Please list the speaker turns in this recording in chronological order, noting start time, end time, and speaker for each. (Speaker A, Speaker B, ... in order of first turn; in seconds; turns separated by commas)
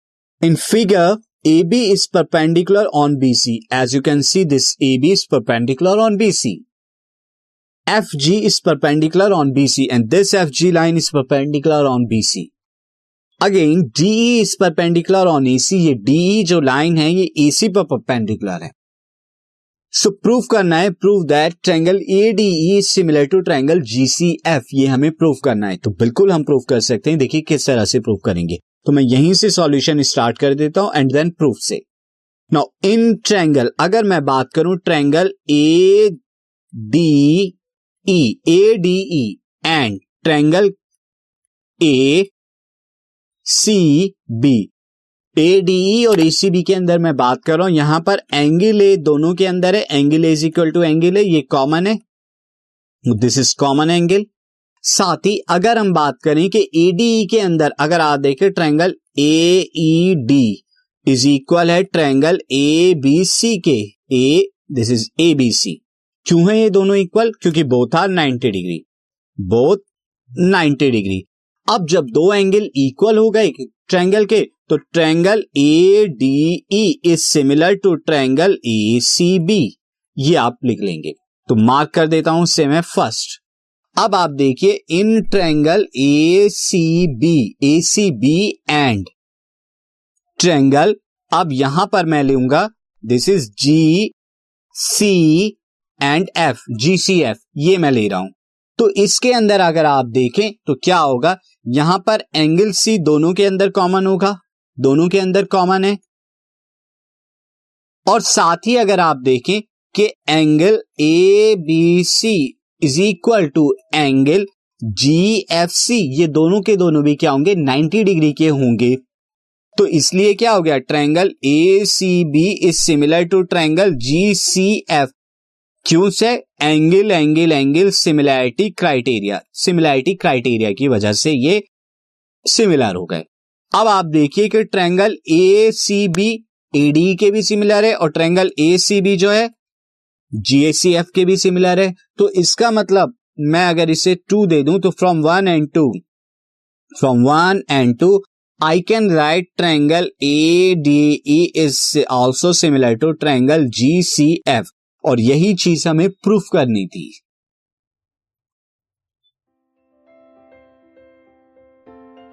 Speaker A: 0.4-6.6, Speaker A: 7.9-12.5, Speaker A: 13.4-18.7, Speaker A: 19.9-31.8, Speaker A: 32.5-36.1, Speaker A: 36.8-37.5, Speaker A: 38.1-40.7, Speaker A: 41.8-42.3, Speaker A: 43.4-44.7, Speaker A: 45.4-52.0, Speaker A: 53.0-54.3, Speaker A: 54.8-68.8, Speaker A: 69.4-69.8, Speaker A: 70.4-83.4, Speaker A: 84.0-89.1, Speaker A: 90.4-94.1, Speaker A: 94.7-106.0, Speaker A: 108.1-119.0, Speaker A: 119.7-125.1, Speaker A: 125.8-131.6, Speaker A: 132.5-139.5, Speaker A: 140.4-146.0, Speaker A: 147.0-157.1